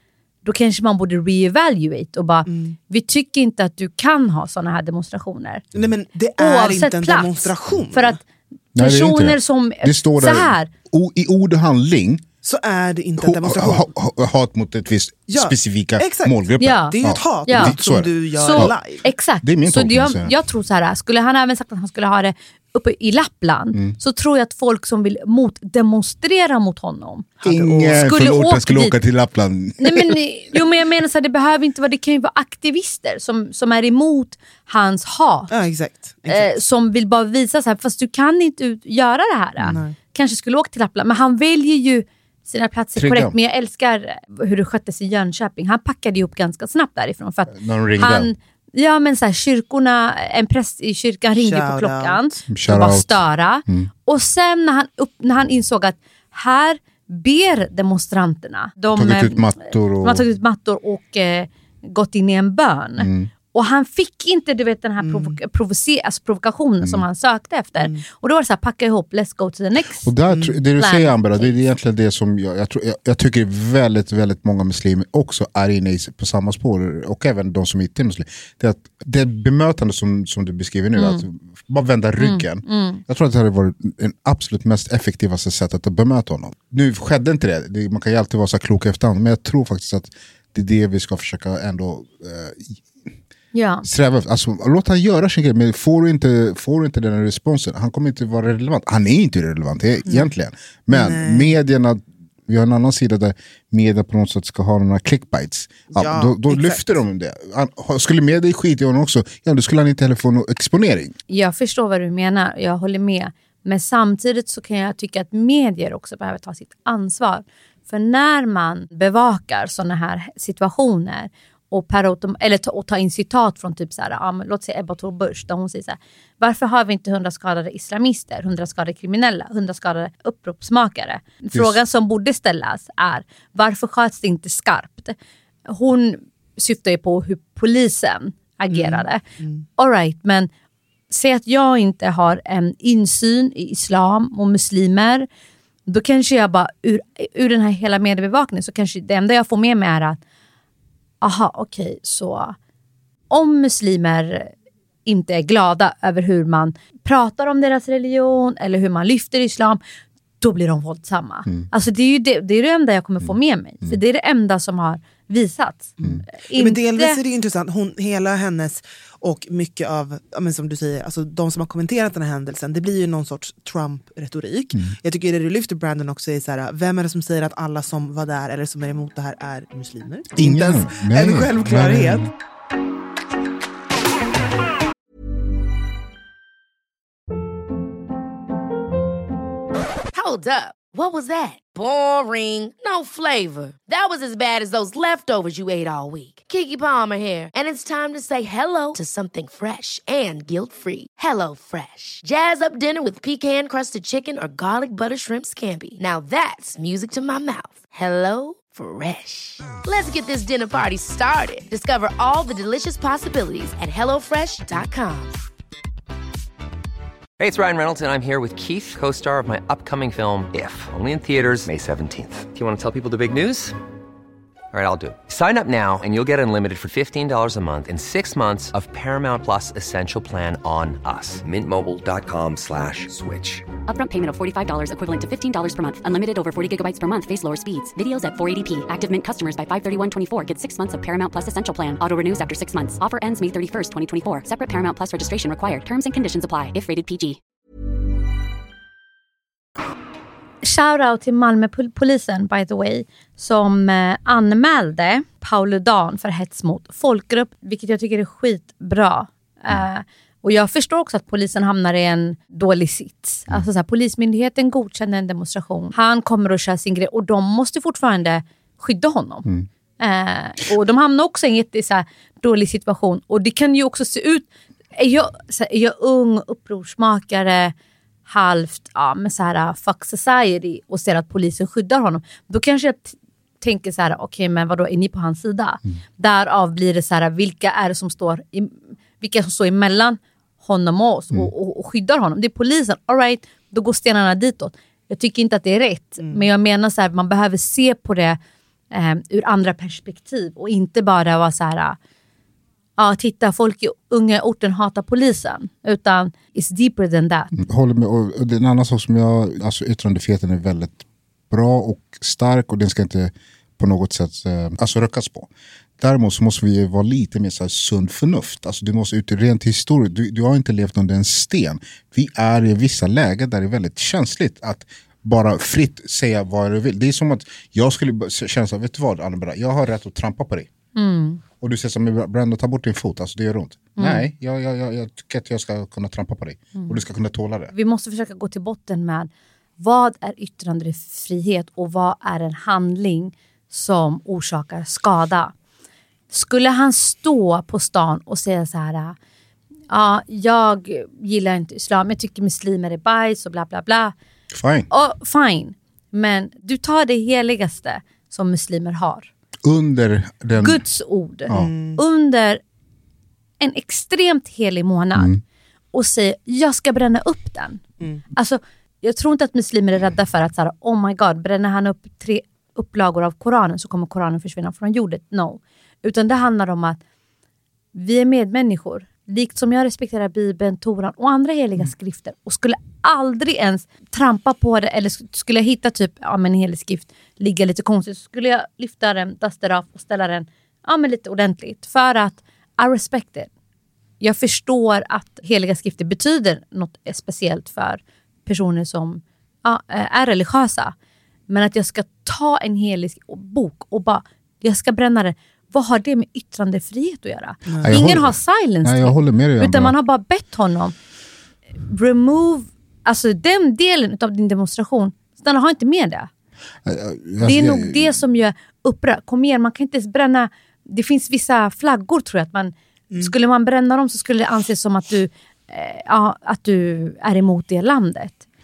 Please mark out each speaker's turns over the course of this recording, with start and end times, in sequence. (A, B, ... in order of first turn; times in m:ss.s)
0:00.4-0:05.6 A
0:02.5-0:02.8 B
0:05.8-0:08.2 B
0:06.4-0:08.2 A
0:08.8-0:12.2 C
0:08.8-0:10.7 A
0:12.4-0:13.9 B
0:13.2-0:18.7 C
0:15.3-0:19.1 B
0:16.6-0:17.8 A
0:18.4-0:27.4 A
0:19.4-0:20.3 C
0:27.4-0:28.1 B
0:27.4-0:30.2 C
0:27.9-0:29.0 A
0:29.8-0:35.5 A
0:35.5-0:36.5 B
0:36.3-1:10.1 A
0:39.7-0:40.0 B
0:43.0-0:43.4 C
0:47.5-0:48.3 C
0:51.3-0:52.4 B
0:52.5-0:53.9 C
0:58.9-1:00.3 C
1:03.0-1:03.3 C
1:05.0-1:05.4 B
1:07.8-1:08.0 B
1:10.0-1:32.8 C
1:10.3-1:10.6 B
1:10.8-1:11.6 A
1:21.0-1:21.2 A
1:22.2-1:23.0 A
1:33.5-1:33.9 A
1:33.8-1:51.2 C
1:40.9-1:41.5 B
1:45.9-1:46.9 B
1:51.3-2:15.2 A
2:15.7-2:19.2 A
2:18.7-2:19.6 B
2:19.8-2:20.5 A
2:21.1-2:25.3 A
2:25.9-2:30.2 A
2:31.2-2:32.6 A
2:33.3-2:34.5 A
2:35.0-2:39.8 A
2:40.4-2:47.2 A
2:46.6-3:02.3 B
3:00.4-3:02.3 C
3:10.1-3:35.4 D
3:37.4-3:43.8 E
3:44.7-3:53.8 E
3:53.8-4:07.4 F
4:10.6-4:29.5 A
4:30.0-4:37.7 A
4:38.3-4:58.4 A
4:56.2-4:56.5 B
4:58.9-5:02.0 A
5:03.0-5:07.5 A
5:07.5-5:30.7 C
5:31.0-5:31.4 A
5:31.6-5:37.7 C
5:34.0-5:34.2 A
5:37.7-5:45.5 A
5:46.3-5:49.2 A
5:49.9-5:54.2 A
5:54.5-5:54.9 C
5:54.9-5:59.3 A
5:59.6-6:00.8 C
6:00.6-6:02.6 A
6:01.5-6:02.0 B
6:03.6-6:05.4 A
6:05.2-6:05.4 C
6:05.9-6:17.0 A
6:17.9-6:33.5 A
6:34.2-6:41.0 A
6:41.5-6:51.0 A
6:47.7-6:48.0 B
6:47.8-6:49.9 C
6:51.8-6:56.3 A
6:56.8-6:58.2 C
6:57.4-7:08.4 A